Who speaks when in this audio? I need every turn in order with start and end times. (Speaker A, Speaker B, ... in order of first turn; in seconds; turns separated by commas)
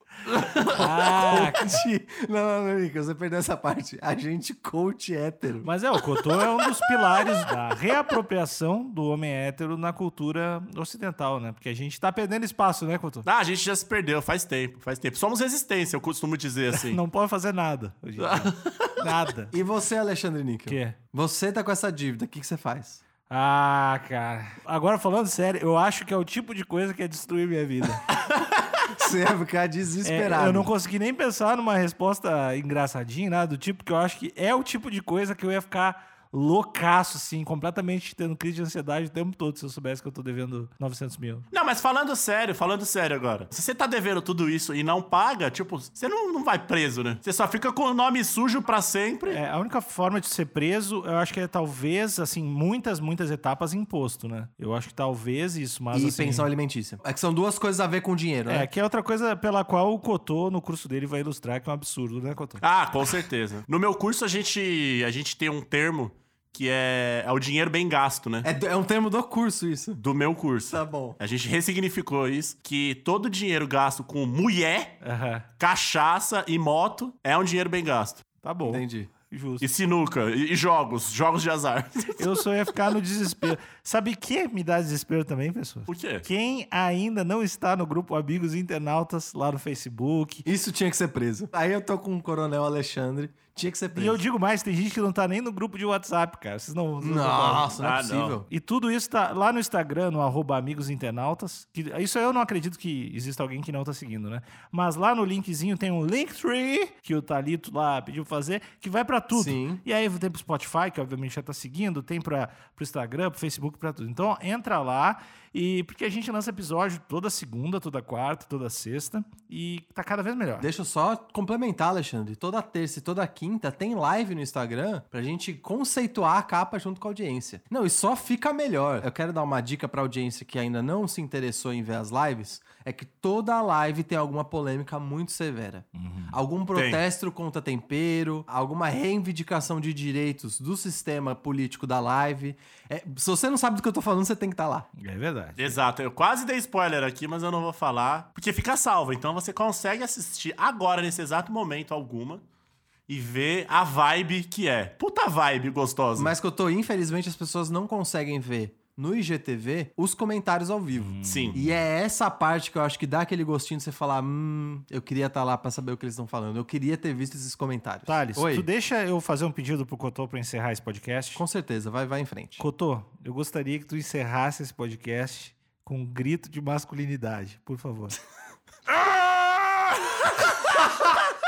Speaker A: 0.7-1.8, Speaker B: 0.8-5.7, Speaker A: 5.6-13.3, Speaker C: 13.2-17.0, Speaker A: 16.7-19.5, Speaker C: 18.2-19.1, Speaker B: 19.5-23.0, Speaker A: 20.7-21.0, Speaker A: 23.3-28.1, Speaker B: 28.9-30.7, Speaker A: 30.0-41.5, Speaker C: 41.5-49.4, Speaker A: 49.3-56.5, Speaker B: 55.9-58.7, Speaker A: 58.5-62.6, Speaker C: 62.6-68.5, Speaker B: 68.4-70.0, Speaker C: 70.0-75.0, Speaker B: 70.7-71.2, Speaker A: 75.0-75.5, Speaker C: 75.6-78.2, Speaker A: 78.4-79.7, Speaker B: 78.7-79.1, Speaker C: 79.6-82.4, Speaker A: 82.2-90.5, Speaker C: 85.9-86.2, Speaker B: 90.5-94.2, Speaker A: 93.9-97.8, Speaker B: 97.0-98.5, Speaker C: 97.8-98.4, Speaker A: 98.5-120.7, Speaker B: 109.3-109.8, Speaker B: 120.6-144.9, Speaker A: 135.9-136.4, Speaker C: 136.8-137.0, Speaker A: 145.0-145.8, Speaker C: 145.6-152.4, Speaker C: 153.1-156.3, Speaker B: 156.2-168.7, Speaker A: 160.9-161.8, Speaker C: 161.2-161.6, Speaker A: 168.1-171.4, Speaker B: 171.4-172.6, Speaker A: 172.6-178.2, Speaker A: 179.0-179.5